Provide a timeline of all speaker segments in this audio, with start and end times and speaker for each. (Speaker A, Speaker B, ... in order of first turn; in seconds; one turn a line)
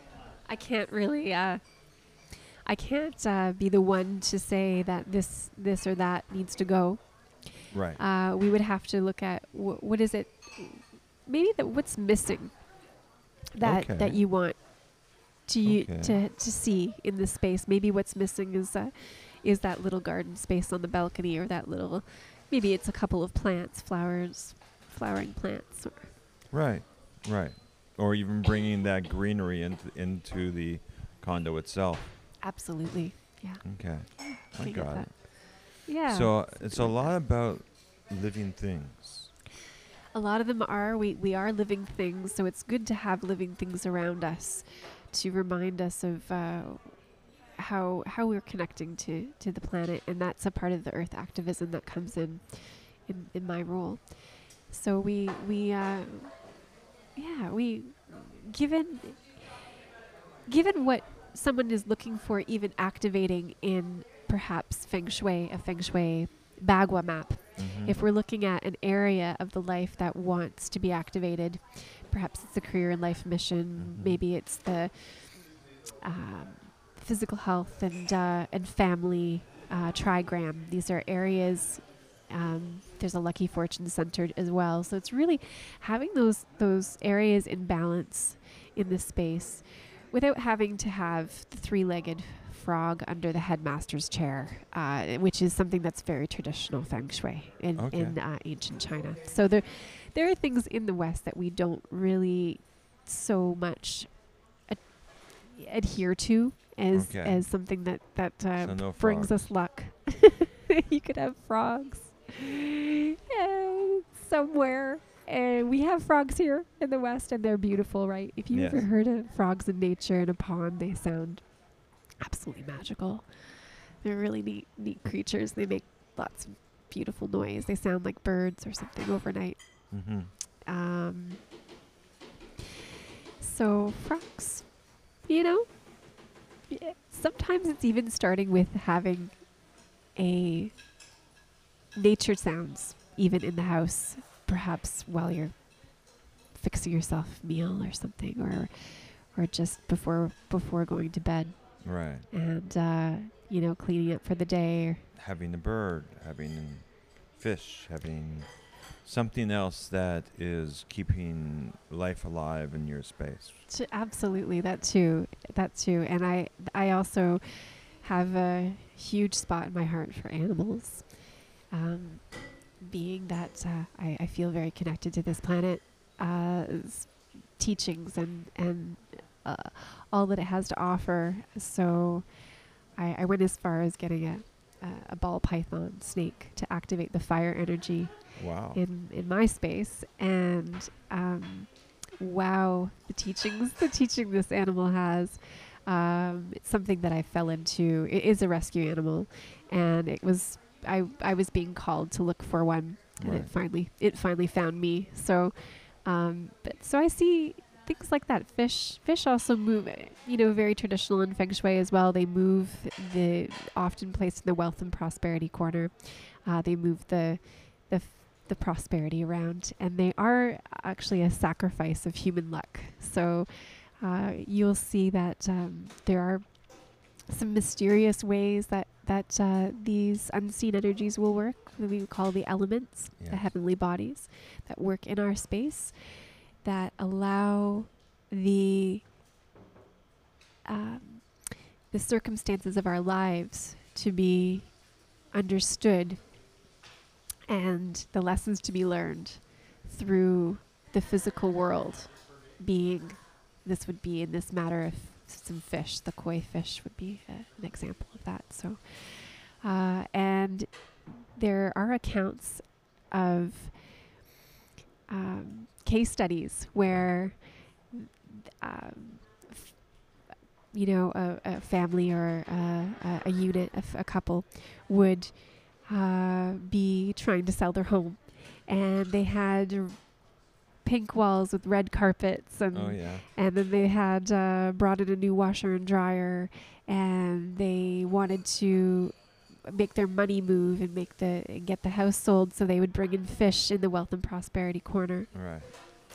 Speaker A: 0.5-12.7
Speaker B: 7.7-8.0
Speaker A: 13.5-26.1
Speaker B: 13.6-14.2
Speaker B: 15.6-16.2
Speaker B: 26.5-32.1
Speaker A: 32.4-37.1
Speaker B: 33.6-39.3
Speaker A: 40.1-56.5
Speaker A: 57.1-59.6
Speaker A: 60.5-75.5
Speaker B: 67.6-68.0
Speaker B: 73.8-74.2
Speaker A: 76.0-112.7
Speaker B: 97.8-98.2
Speaker B: 106.9-107.5
Speaker B: 108.6-109.6
Speaker A: 113.3-121.6
Speaker B: 118.5-118.8
Speaker A: 122.1-131.4
Speaker B: 129.9-130.3
Speaker A: 133.4-136.2
Speaker A: 136.7-139.5
Speaker A: 140.1-140.7
Speaker A: 141.9-155.1
Speaker B: 151.8-152.3
Speaker B: 155.1-163.6
Speaker A: 163.7-239.1
Speaker B: 188.3-188.8
Speaker B: 203.2-203.5
Speaker B: 233.2-233.5
Speaker A: 240.6-246.3
Speaker A: 247.5-264.1
Speaker A: 265.1-270.0
Speaker A: 270.7-280.1
Speaker A: 280.8-295.8
Speaker B: 282.7-283.2
Speaker B: 295.3-295.7